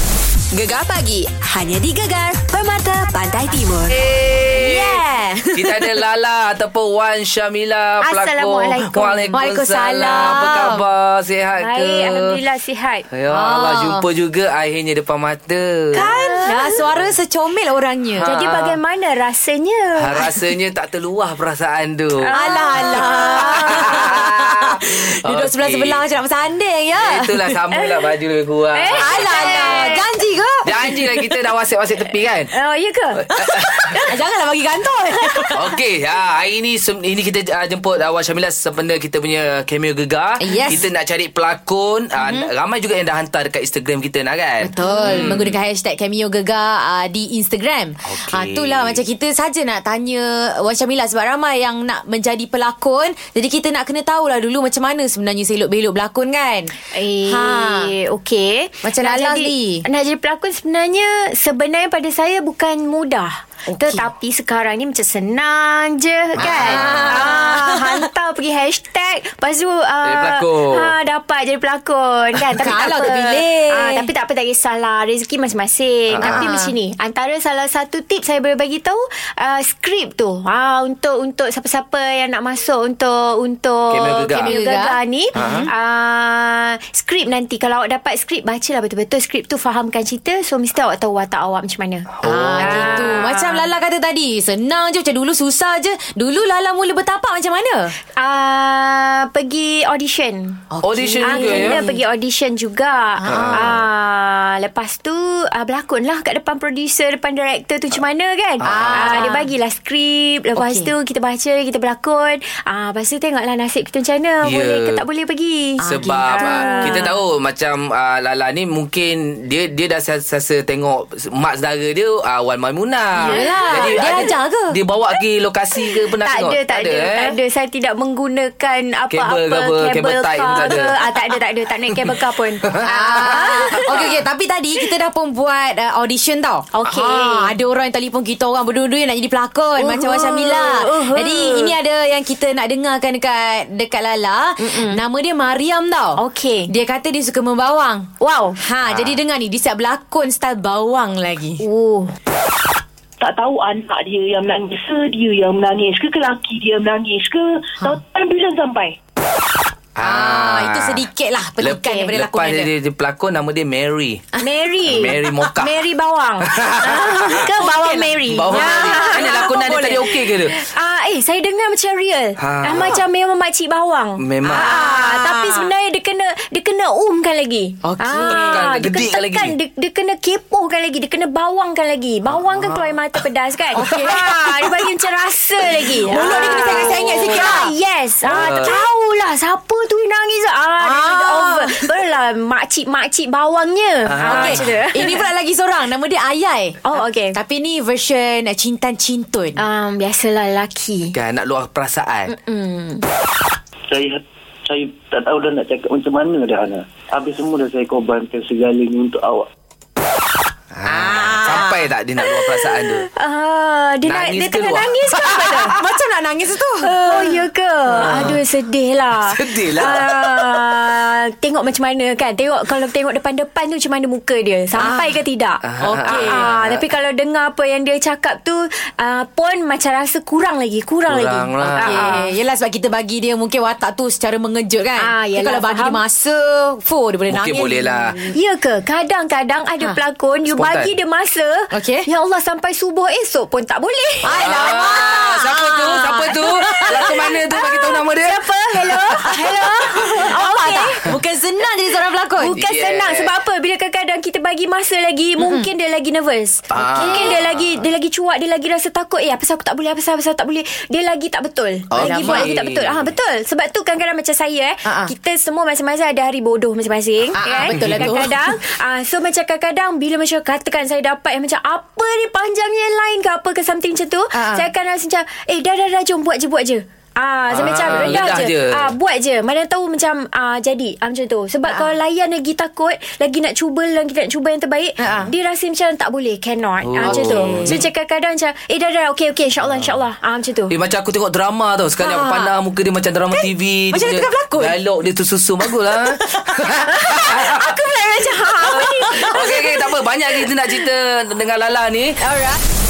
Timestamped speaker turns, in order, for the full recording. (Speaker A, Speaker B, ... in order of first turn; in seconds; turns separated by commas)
Speaker A: 0.5-4.0, Speaker B: 3.9-5.0, Speaker C: 4.5-6.0, Speaker B: 5.5-12.4, Speaker D: 8.0-9.3, Speaker C: 9.3-10.8, Speaker D: 11.6-13.1, Speaker B: 13.1-16.0, Speaker C: 13.3-14.1, Speaker C: 15.9-18.3, Speaker D: 15.9-16.9, Speaker B: 18.2-18.8, Speaker D: 18.2-20.4, Speaker B: 20.0-26.0, Speaker D: 22.2-24.1, Speaker C: 22.3-27.6, Speaker B: 27.0-29.9, Speaker D: 27.7-28.0, Speaker D: 28.7-30.1, Speaker C: 28.9-31.3, Speaker B: 30.6-32.5, Speaker D: 32.5-34.1, Speaker B: 33.1-34.0, Speaker C: 33.3-35.6, Speaker D: 35.2-35.6, Speaker B: 35.5-45.6, Speaker C: 40.4-40.9, Speaker C: 44.6-57.9, Speaker D: 44.9-45.2, Speaker B: 48.0-49.0, Speaker D: 56.9-93.6, Speaker C: 58.8-59.9, Speaker C: 63.7-64.1, Speaker B: 66.4-67.4, Speaker C: 66.4-68.1, Speaker B: 70.0-71.0, Speaker C: 72.6-74.1, Speaker B: 76.1-76.5, Speaker C: 76.2-76.7, Speaker B: 83.9-84.5, Speaker C: 84.3-85.7, Speaker B: 85.4-85.7, Speaker B: 92.2-93.2, Speaker C: 92.2-97.9, Speaker D: 98.2-100.6, Speaker C: 100.7-102.0, Speaker B: 100.8-101.8, Speaker D: 101.2-117.1, Speaker C: 103.2-103.8, Speaker B: 103.3-103.8, Speaker B: 108.6-109.4, Speaker C: 108.6-109.5, Speaker C: 110.6-110.9, Speaker B: 114.4-115.0, Speaker C: 115.8-117.1, Speaker B: 115.9-127.4, Speaker D: 123.2-124.3, Speaker C: 123.2-124.8, Speaker D: 126.2-134.1, Speaker B: 129.1-131.3, Speaker B: 131.9-134.1, Speaker C: 132.8-151.6, Speaker D: 136.7-137.5, Speaker D: 139.8-141.8, Speaker D: 144.6-145.0, Speaker D: 146.2-146.7, Speaker D: 148.2-148.6, Speaker B: 148.9-149.2, Speaker D: 151.6-152.1, Speaker E: 153.2-159.0, Speaker B: 160.0-161.1, Speaker C: 160.0-162.7, Speaker B: 161.6-164.3, Speaker D: 164.4-195.2, Speaker B: 164.8-165.7, Speaker C: 165.0-165.5, Speaker B: 166.5-167.5, Speaker C: 167.6-170.1, Speaker B: 168.2-170.6, Speaker B: 172.4-173.0, Speaker B: 174.2-174.9, Speaker C: 174.5-175.7, Speaker B: 177.8-179.6, Speaker C: 178.0-178.7, Speaker B: 182.3-183.2, Speaker C: 183.7-184.7, Speaker B: 183.8-184.2, Speaker C: 186.0-187.7, Speaker B: 186.2-187.6, Speaker B: 188.2-188.8, Speaker C: 190.8-191.9, Speaker B: 194.1-194.8, Speaker C: 194.2-199.6, Speaker D: 196.8-197.4, Speaker D: 199.6-201.1, Speaker B: 201.1-202.3, Speaker D: 202.3-203.1, Speaker F: 203.9-209.5, Speaker B: 210.7-213.1, Speaker C: 210.9-211.9, Speaker D: 212.2-215.8, Speaker B: 214.0-215.8, Speaker C: 215.1-217.4, Speaker D: 216.8-232.3, Speaker B: 217.9-218.4, Speaker B: 219.2-220.7, Speaker C: 224.8-225.2, Speaker B: 225.6-226.9, Speaker C: 225.8-226.5, Speaker B: 231.1-232.2, Speaker C: 231.6-238.3, Speaker D: 235.0-236.0, Speaker B: 237.3-238.1, Speaker D: 238.3-244.9, Speaker B: 240.5-240.9, Speaker C: 241.7-242.1, Speaker C: 244.2-247.3, Speaker B: 244.3-250.2, Speaker D: 246.7-251.1, Speaker C: 249.2-252.6, Speaker D: 252.4-290.7, Speaker B: 252.5-253.3, Speaker C: 255.4-255.7, Speaker B: 256.7-257.9, Speaker C: 256.8-257.4, Speaker B: 261.9-263.1, Speaker C: 262.0-262.5, Speaker C: 264.9-265.1, Speaker C: 267.4-268.3, Speaker B: 267.7-268.3, Speaker C: 274.3-274.7, Speaker B: 277.5-278.9, Speaker C: 277.9-278.3, Speaker C: 285.0-285.3, Speaker B: 286.8-287.8, Speaker C: 287.0-287.9, Speaker B: 290.7-297.8, Speaker C: 292.0-292.5, Speaker C: 293.3-294.8, Speaker C: 295.9-297.5, Speaker D: 297.0-299.7, Speaker C: 298.4-299.5, Speaker B: 298.6-302.2, Speaker C: 302.2-302.6